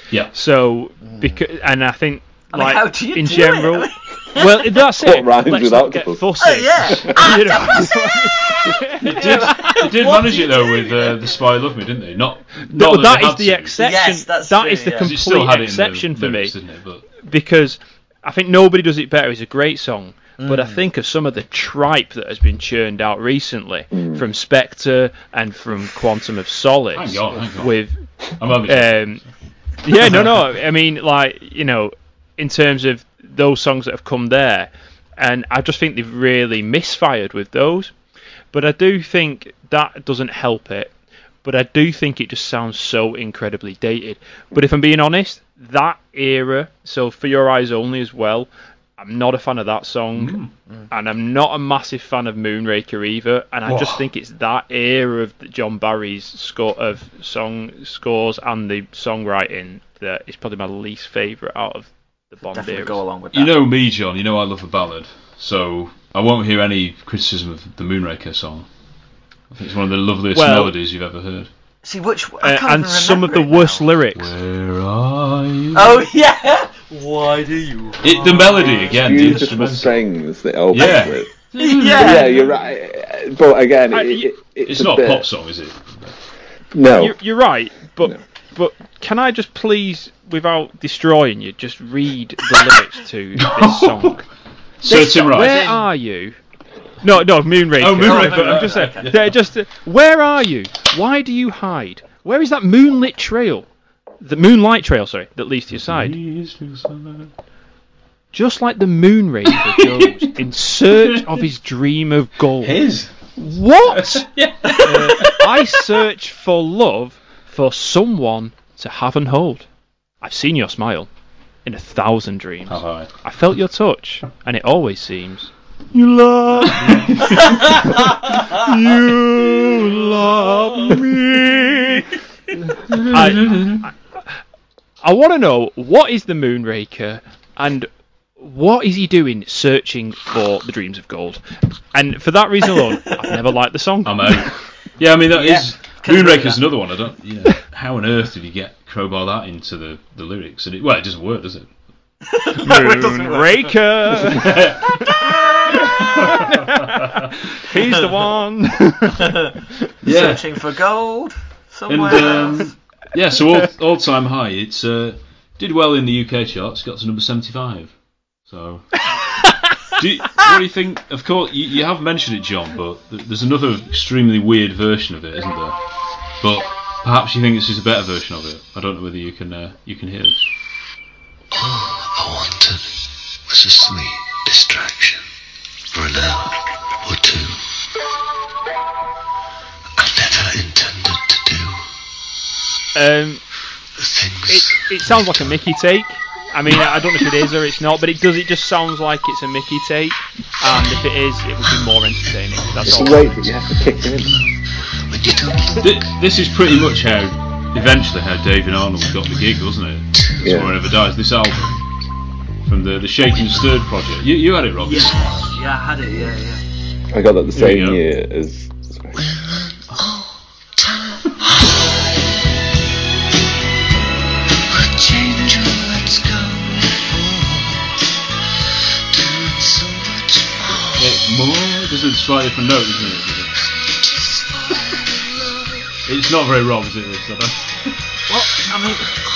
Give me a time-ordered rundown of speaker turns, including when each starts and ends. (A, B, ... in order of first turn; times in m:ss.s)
0:00.3-0:09.8 A
0:01.0-0:01.4 B
0:02.5-0:04.6 B
0:05.0-0:06.2 C
0:06.4-0:11.2 B
0:09.0-0:13.8 D
0:12.6-0:16.6 A
0:13.8-0:15.1 B
0:15.0-0:17.0 D
0:17.1-0:29.2 A
0:20.4-0:20.8 B
0:23.9-0:24.2 C
0:26.9-0:27.8 D
0:28.4-0:29.2 D
0:29.8-0:37.9 A
0:30.0-0:30.3 D
0:38.5-0:40.9 A
0:41.4-0:50.4 A
0:50.2-0:50.5 D
0:50.9-1:03.0 A
0:53.6-0:54.1 D
1:02.5-1:03.6 B
1:03.3-1:08.7 D
1:09.5-1:11.5 D
1:10.3-1:10.7 A
1:11.8-1:13.9 B
1:12.4-1:14.3 A
1:14.1-1:16.1 D
1:15.7-1:19.0 B
1:18.0-1:20.0 D
1:18.7-1:21.3 C
1:20.7-1:22.3 D
1:20.8-1:21.0 B
1:21.6-1:22.5 B
1:21.9-1:25.2 C
1:23.9-1:24.3 A
1:24.6-1:26.2 D
1:26.7-1:27.2 C
1:27.0-1:34.3 A
1:33.4-1:34.2 D
1:34.8-1:35.8 D
1:34.8-1:36.4 A
1:35.4-1:35.8 B
1:37.0-1:43.6 A
1:37.8-1:39.4 D
1:38.0-1:39.1 B
1:44.2-1:46.2 A
1:45.8-1:47.3 D
1:48.3-1:52.8 A
1:49.5-1:50.3 D
1:50.9-1:51.4 D
1:52.6-1:53.3 D
1:53.4-1:54.2 A
1:53.8-1:55.7 D
1:54.6-1:55.3 B
1:54.8-1:59.6 A
2:00.2-2:01.1 A
2:01.6-2:05.5 A
2:02.6-2:03.1 D
2:05.9-2:08.0 D
2:06.6-2:12.1 A
2:12.9-2:13.8 D
2:13.1-2:13.9 A
2:15.0-2:24.5 A
2:24.0-2:31.7 D
2:25.3-2:26.6 B
2:32.3-2:33.8 B
2:32.6-2:35.2 A
2:34.4-2:34.8 D
2:35.0-2:35.8 B
2:35.9-2:37.0 A
2:36.0-2:37.1 D
2:37.6-2:39.4 A
2:40.0-2:40.4 D
2:40.0-2:42.7 B
2:41.9-2:47.9 D
2:48.4-2:49.0 D
2:49.3-2:49.9 A
2:50.0-2:55.8 D
2:56.4-3:00.4 D
3:01.6-3:05.3 E
3:05.9-3:07.6 E
3:10.0-3:11.8 E
3:12.9-3:13.4 A
3:14.0-3:15.6 E
3:14.5-3:23.4 A
3:16.7-3:17.3 E
3:20.7-3:21.0 E
3:22.8-3:24.4 C
3:24.2-3:24.4 E
3:25.0-3:26.0 E
3:25.8-3:31.8 D
3:29.0-3:29.4 E
3:30.1-3:30.4 E
3:30.4-3:30.7 C
3:32.6-3:35.4 D
3:34.8-3:36.6 B
3:37.1-3:39.2 C
3:37.5-3:38.0 D
3:40.0-3:40.3 E
3:44.8-3:47.9 E
3:49.1-3:51.1 E
3:51.0-3:53.6 D
3:53.8-3:55.7 E
3:56.0-3:58.0 D
3:58.3-3:59.1 B